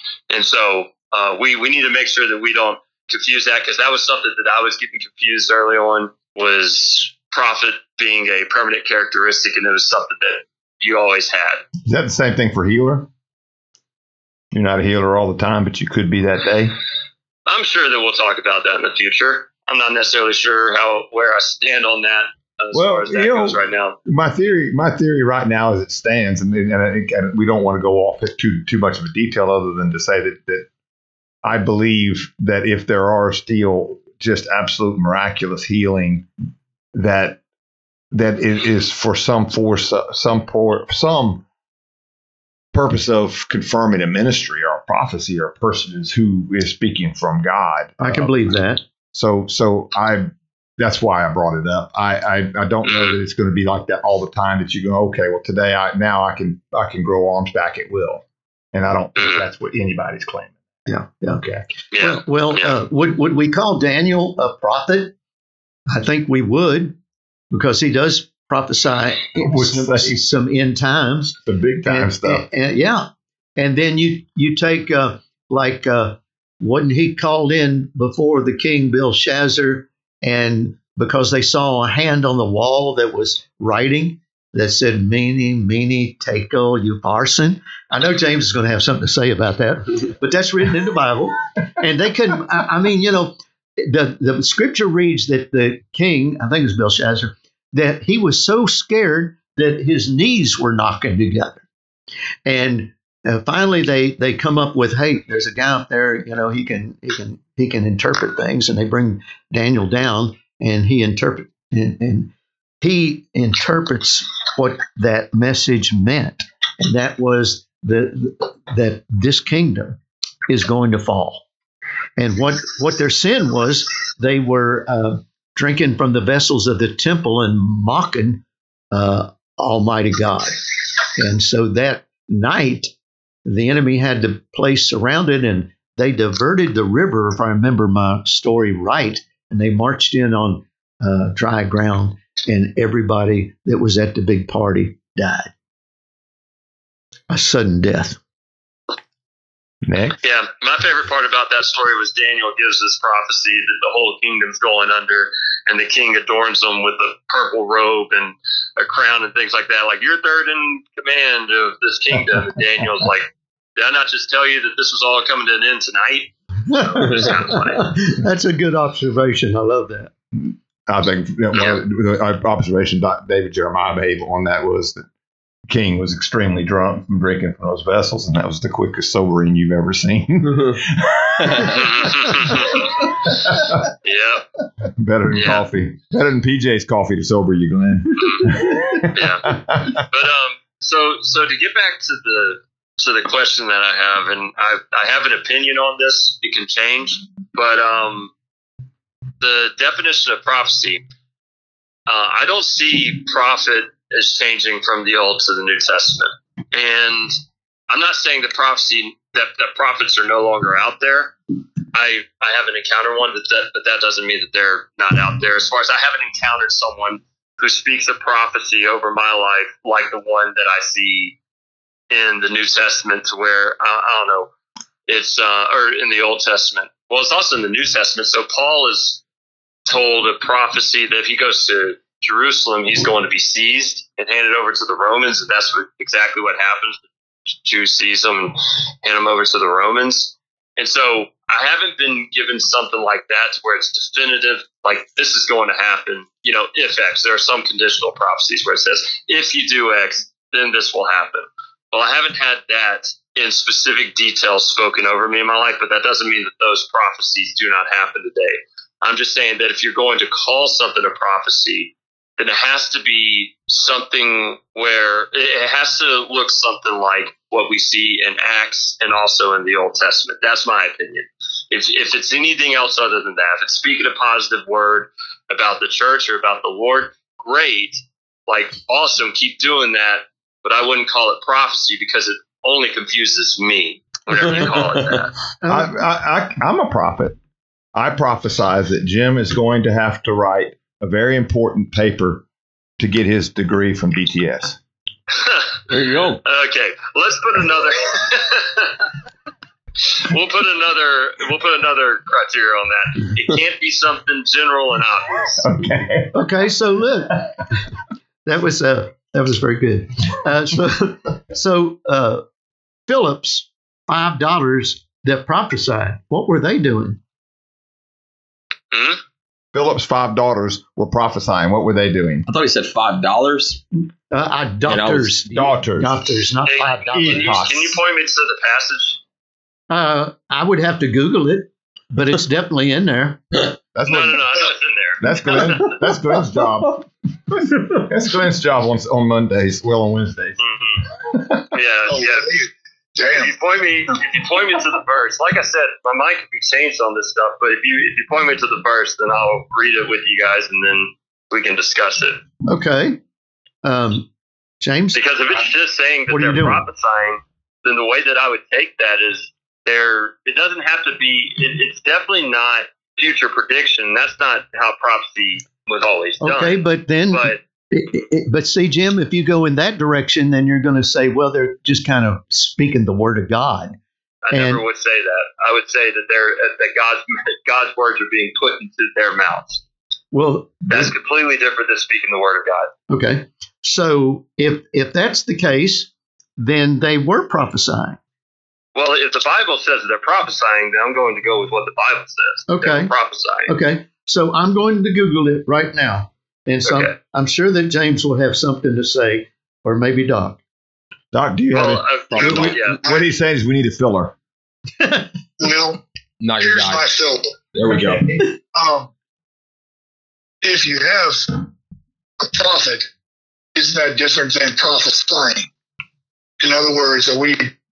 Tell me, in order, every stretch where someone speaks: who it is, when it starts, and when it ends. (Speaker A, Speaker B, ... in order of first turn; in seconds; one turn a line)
Speaker A: 0.3-11.6
Speaker B: 11.8-13.1
Speaker B: 14.5-16.7
Speaker A: 17.5-24.0
Speaker B: 22.7-30.6
Speaker B: 31.4-36.3
Speaker B: 36.9-37.4
Speaker B: 38.1-41.4
Speaker B: 42.7-48.5
Speaker C: 48.0-48.8
Speaker B: 49.1-60.6
Speaker A: 52.8-53.2
Speaker A: 59.2-59.4
Speaker C: 60.9-61.4
Speaker B: 61.4-61.6
Speaker A: 61.9-62.8
Speaker C: 62.0-65.1
Speaker C: 65.9-67.0
Speaker C: 67.5-101.6
Speaker B: 69.4-70.2
Speaker B: 71.5-72.4
Speaker C: 102.4-121.4
Speaker C: 122.2-130.6
Speaker C: 131.1-132.9
Speaker C: 133.4-145.5
Speaker C: 147.3-148.2
Speaker B: 149.8-150.2
Speaker A: 150.2-167.9
Speaker C: 166.7-170.1
Speaker B: 170.3-175.0
Speaker B: 175.7-183.8
Speaker D: 181.4-181.7
Speaker A: 181.7-183.1
Speaker A: 184.0-184.4
Speaker B: 185.0-190.0
Speaker A: 185.3-185.6
Speaker A: 188.2-188.5
Speaker A: 189.0-198.3
Speaker A: 199.4-201.1
Speaker A: 202.1-207.3
Speaker A: 207.9-211.3
Speaker A: 211.9-221.3
Speaker A: 222.1-224.5
Speaker A: 225.1-229.2
Speaker A: 229.8-237.0
Speaker A: 237.5-285.3
Speaker D: 284.3-285.3
Speaker C: 284.3-284.8
Speaker C: 285.6-285.9
Speaker B: 285.7-287.4
Speaker B: 287.9-292.4
Speaker B: 293.0-294.8
Speaker A: 295.3-295.8
Speaker D: 295.9-296.4
Speaker A: 296.4-299.1
Speaker A: 300.1-305.6
Speaker B: 305.6-306.4
Speaker C: 306.3-307.5
Speaker C: 308.4-312.4
Speaker C: 313.1-317.2
Speaker A: 318.9-319.2
Speaker B: 319.7-322.5
Speaker D: 322.5-323.8
Speaker C: 324.3-327.6
Speaker D: 324.9-325.3
Speaker B: 325.5-326.2
Speaker A: 326.6-329.2
Speaker B: 327.1-328.0
Speaker C: 329.9-333.6
Speaker B: 333.9-334.4
Speaker A: 334.0-336.0
Speaker B: 335.2-337.0
Speaker B: 337.8-340.6
Speaker A: 340.6-341.0
Speaker A: 341.7-342.5
Speaker E: 342.1-343.5
Speaker A: 343.2-352.4
Speaker C: 352.6-353.2
Speaker C: 353.8-354.3
Speaker C: 354.8-355.2
Speaker A: 355.1-367.6
Speaker C: 356.3-356.9
Speaker C: 366.4-374.0
Speaker A: 374.4-379.8
Speaker C: 374.5-374.8
Speaker C: 380.3-381.1
Speaker A: 380.9-382.9
Speaker C: 383.1-388.2
Speaker A: 388.9-393.7
Speaker C: 392.7-393.1
Speaker C: 393.7-400.6
Speaker A: 396.8-397.1
Speaker B: 401.3-404.3
Speaker A: 401.7-403.0
Speaker E: 402.4-403.3
Speaker C: 405.0-405.3
Speaker E: 405.6-406.0
Speaker D: 406.4-407.1
Speaker E: 406.6-407.6
Speaker D: 407.7-408.5
Speaker B: 407.8-408.3
Speaker E: 408.7-409.1
Speaker E: 410.6-411.6
Speaker E: 412.4-413.1
Speaker E: 413.7-415.7
Speaker E: 416.6-417.7